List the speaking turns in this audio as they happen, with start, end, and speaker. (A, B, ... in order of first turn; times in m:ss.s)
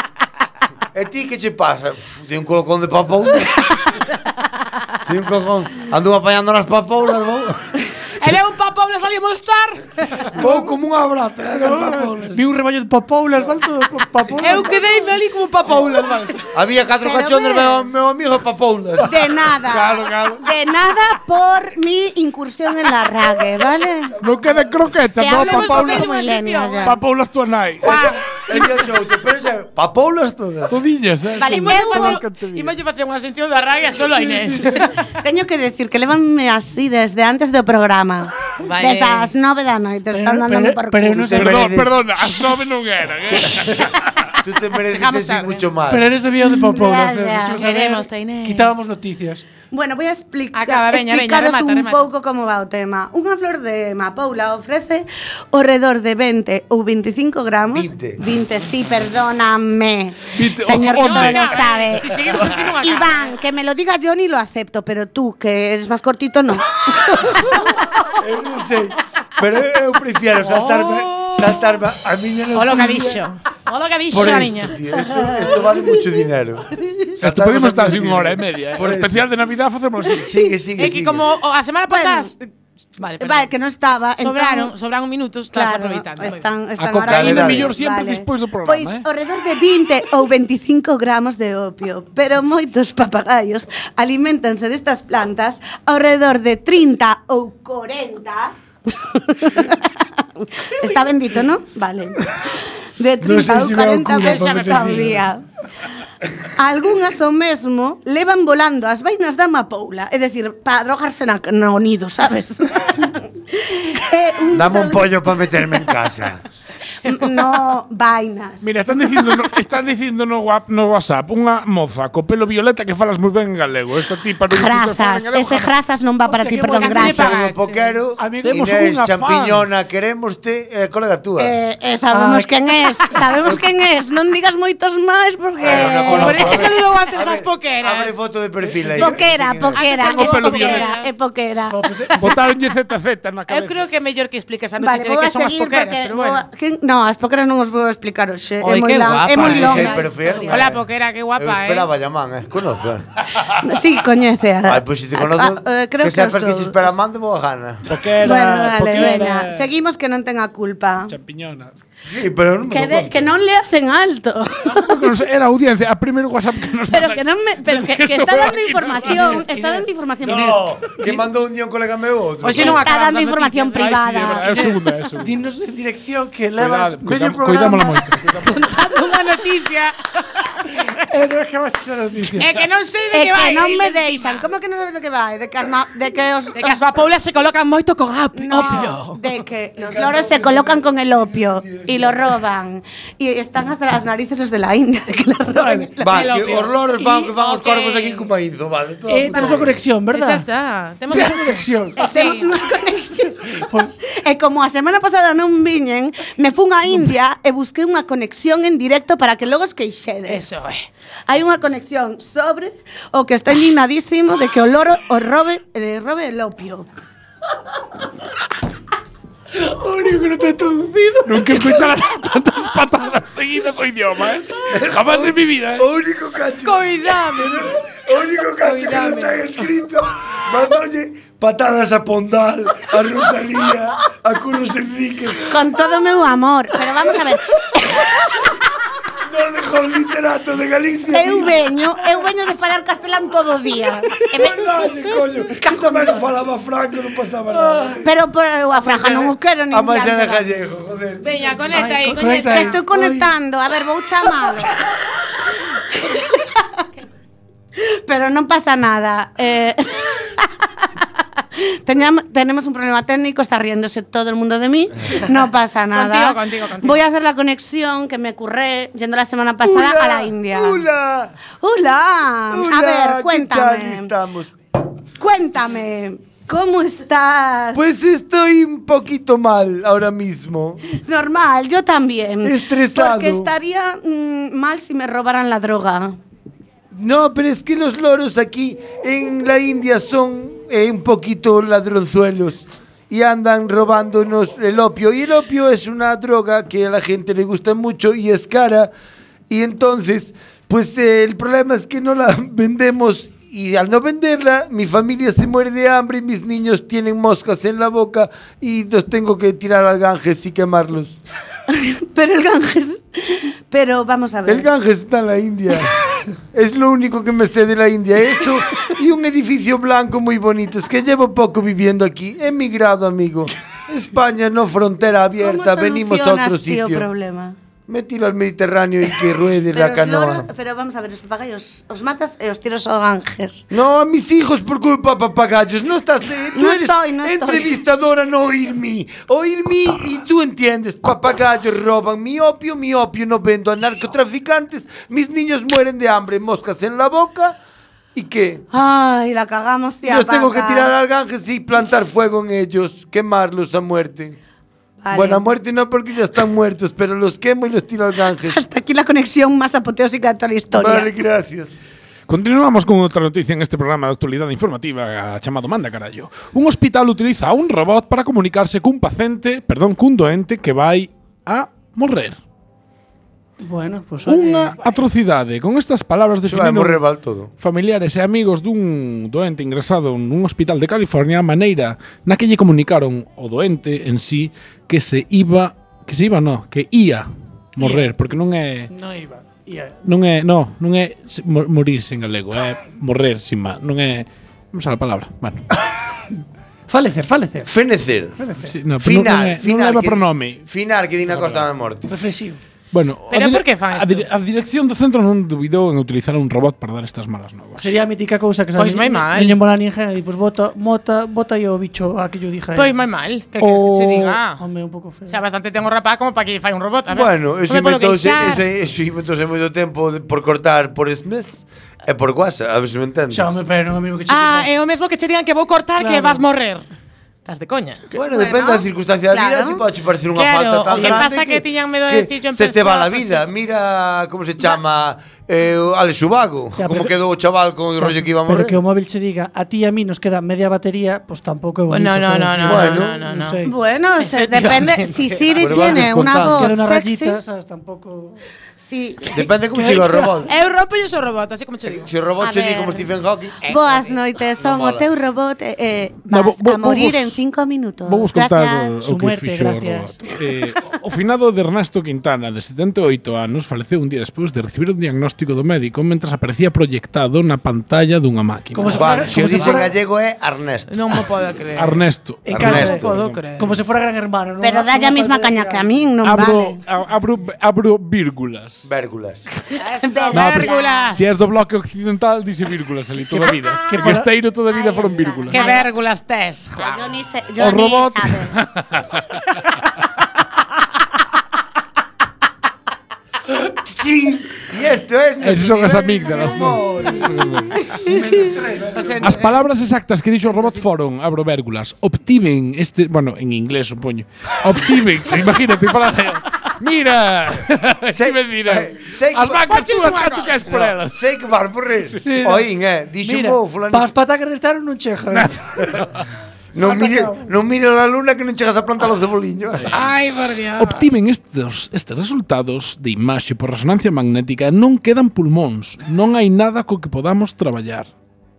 0:00.9-0:03.7 A
0:05.0-0:07.6 A
0:08.2-0:10.2 B
0:10.3-0:12.4 A
0:10.4-0:10.7 C
0:11.6-0:14.9 C
0:14.4-0:16.4 B
0:16.5-0:19.3 A
0:17.0-0:17.8 D
0:19.0-0:24.2 D
0:19.6-0:20.4 E
0:24.2-0:25.0 A
0:24.2-0:26.1 E
0:25.2-0:27.0 D
0:25.3-0:27.0 B
0:26.8-0:28.2 E
0:27.9-0:28.1 B
0:28.5-0:30.8 A
0:30.7-0:32.8 E
0:31.4-0:32.2 D
0:31.4-0:34.9 B
0:34.1-0:34.7 E
0:35.2-0:41.4 D
0:38.6-0:39.3 B
0:40.1-0:41.6 C
0:41.1-0:42.1 A
0:41.4-0:44.4 E
0:44.4-0:46.1 A
0:44.9-0:45.6 B
0:45.9-0:49.4 C
0:46.6-0:47.6 D
0:47.5-0:48.8 B
0:49.7-1:07.9 D
0:50.5-0:52.1 B
0:57.7-0:58.2 A
1:00.3-1:02.7 E
1:00.9-1:03.4 B
1:08.2-1:13.2 A
1:10.6-1:10.9 E
1:12.5-1:14.7 B
1:14.1-1:19.3 A
1:15.1-1:15.5 D
1:17.2-1:20.4 E
1:20.2-1:21.2 A
1:20.8-1:22.4 B
1:21.9-1:22.3 D
1:23.0-1:23.5 B
1:23.2-1:24.7 D
1:24.2-1:26.4 B
1:25.5-1:45.4 D
1:26.8-1:29.0 E
1:27.0-1:27.7 A
1:43.2-1:45.2 A
1:44.2-1:45.0 B
1:46.6-1:55.6 D
1:54.5-1:56.4 A
1:57.0-1:59.4 D
1:58.6-2:05.7 E
2:04.5-2:07.5 D
2:06.2-2:07.3 C
2:06.8-2:08.2 B
2:07.1-2:11.5 A
2:08.2-2:08.7 C
2:08.4-2:09.6 E
2:11.4-2:16.6 D
2:12.1-2:13.6 C
2:15.6-2:19.9 A
2:16.1-2:18.2 B
2:18.6-2:19.2 C
2:18.9-2:22.2 D
2:19.8-2:21.1 B
2:19.8-2:20.9 E
2:21.7-2:22.4 C
2:22.2-2:23.9 E
2:23.5-2:26.4 B
2:24.8-2:30.7 D
2:28.6-2:31.9 B
2:29.3-2:30.8 A
2:31.4-2:33.1 A
2:33.6-2:36.9 D
2:34.6-2:38.0 A
2:37.9-2:39.7 E
2:38.2-2:41.1 D
2:41.1-2:41.7 E
2:42.0-2:43.3 A
2:42.7-2:45.1 D
2:44.6-2:49.4 E
2:46.9-2:50.6 D
2:49.1-2:49.9 C
2:50.2-2:52.8 A
2:52.4-2:54.1 B
2:52.6-2:54.6 D
2:53.8-2:55.4 E
2:54.5-2:58.2 C
2:56.6-2:58.7 E
2:58.4-3:00.4 B
3:00.9-3:02.5 C
3:02.4-3:04.4 B
3:03.1-3:06.8 D
3:06.6-3:09.2 B
3:08.4-3:16.4 D
3:09.8-3:12.2 A
3:15.5-3:15.9 C
3:16.0-3:19.8 A
3:16.1-3:18.3 B
3:19.1-3:20.4 C
3:20.1-3:22.4 B
3:21.1-3:22.4 C
3:22.0-3:30.5 D
3:23.5-3:24.0 C
3:30.3-3:30.9 B
3:31.3-3:36.9 D
3:39.6-3:41.8 C
3:41.2-3:45.9 E
3:44.7-3:55.6 A
3:46.6-3:47.7 B
3:48.6-3:49.4 B
3:55.4-3:58.5 D
3:59.2-4:01.6 A
4:01.1-4:04.7 D
4:04.4-4:08.1 A
4:07.5-4:08.0 C
4:08.0-4:10.6 D
4:09.0-4:11.7 A
4:11.2-4:12.8 B
4:11.7-4:13.3 C
4:12.4-4:14.7 D
4:16.0-4:16.4 D
4:17.8-4:20.5 D
4:21.6-4:30.8 D
4:25.9-4:27.0 B
4:29.6-4:31.3 A
4:31.6-4:34.1 D
4:32.5-4:34.5 A
4:35.2-4:37.8 D
4:37.7-4:40.8 A
4:40.9-4:46.2 D
4:42.4-4:43.5 A
4:46.9-4:58.9 A
4:59.5-5:11.2 A
5:11.7-5:14.7 D
5:14.4-5:15.9 A
5:16.5-5:27.1 A
5:25.4-5:27.6 D
5:27.9-5:30.5 A
5:29.7-5:33.7 D
5:33.7-5:47.6 A
5:36.6-5:37.7 D
5:48.1-5:48.6 A
5:48.7-5:50.9 D
5:50.0-5:54.4 A
5:55.0-5:55.4 D
5:55.1-5:58.6 A
5:58.4-6:01.1 D
6:00.7-6:01.7 A
6:02.3-6:12.4 E
6:13.6-6:14.8 C
6:14.2-6:17.0 E
6:14.8-6:15.0 B
6:16.4-6:17.5 A
6:17.6-6:28.9 E
6:28.9-6:30.0 C
6:30.0-6:35.7 E
6:36.9-6:37.7 C
6:37.6-6:38.4 A
6:38.4-6:38.7 C
6:38.7-6:40.6 E
6:39.0-6:42.1 A
6:41.2-6:41.7 E
6:42.1-6:42.6 C
6:42.9-6:47.9 E
6:43.3-6:44.3 B
6:47.8-6:52.9 C
6:48.8-6:49.6 B
6:52.7-6:54.6 B
6:53.6-6:54.4 E
6:54.6-6:55.4 C
6:55.3-6:58.6 B
6:57.1-7:03.6 A
7:03.3-7:04.7 C
7:04.3-7:06.8 B
7:06.0-7:06.4 C
7:07.4-7:08.0 B
7:08.1-7:18.8 A
7:08.2-7:09.8 D
7:10.4-7:13.5 B
7:10.9-7:11.2 C
7:16.8-7:17.1 C
7:17.9-7:23.8 C
7:21.9-7:23.6 B
7:22.6-7:23.2 A
7:23.6-7:27.4 D
7:24.2-7:25.5 B
7:25.6-7:26.7 A
7:25.7-7:28.4 C
7:28.8-7:29.4 D
7:29.3-7:30.5 A
7:29.7-7:30.4 C
7:30.4-7:32.1 B
7:31.8-7:33.7 A
7:32.4-7:33.1 D
7:33.6-7:39.0 D
7:33.6-7:34.1 B
7:34.6-7:35.1 A
7:36.3-7:37.4 E
7:38.1-7:49.8 E
7:39.0-7:40.2 C
7:48.7-7:49.9 C
7:48.9-7:51.0 A
7:50.9-7:52.0 B
7:51.8-7:53.7 E
7:52.5-7:53.0 C
7:52.5-7:53.0 A
7:52.6-7:53.7 B
7:53.6-7:56.0 C
7:54.6-7:56.8 D
7:56.2-7:58.9 E
7:58.8-7:59.4 A
7:59.8-8:01.4 D
7:59.9-8:01.3 B
8:00.3-8:05.6 E
8:03.3-8:04.3 C
8:04.7-8:05.9 D
8:05.5-8:07.1 B
8:06.7-8:08.5 D
8:07.6-8:09.4 E
8:13.8-8:17.6 A
8:15.4-8:17.8 E
8:18.0-8:19.1 C
8:18.7-8:19.2 A
8:18.9-8:19.5 B
8:19.2-8:31.2 E
8:28.1-8:29.9 A
8:29.6-8:30.8 B
8:30.6-8:34.1 A
8:32.2-8:32.7 C
8:33.2-8:35.9 C
8:35.3-8:36.2 E
8:36.7-8:39.9 A
8:36.8-8:37.5 C
8:39.8-8:40.1 E
8:39.9-8:41.0 B
8:40.8-8:48.1 E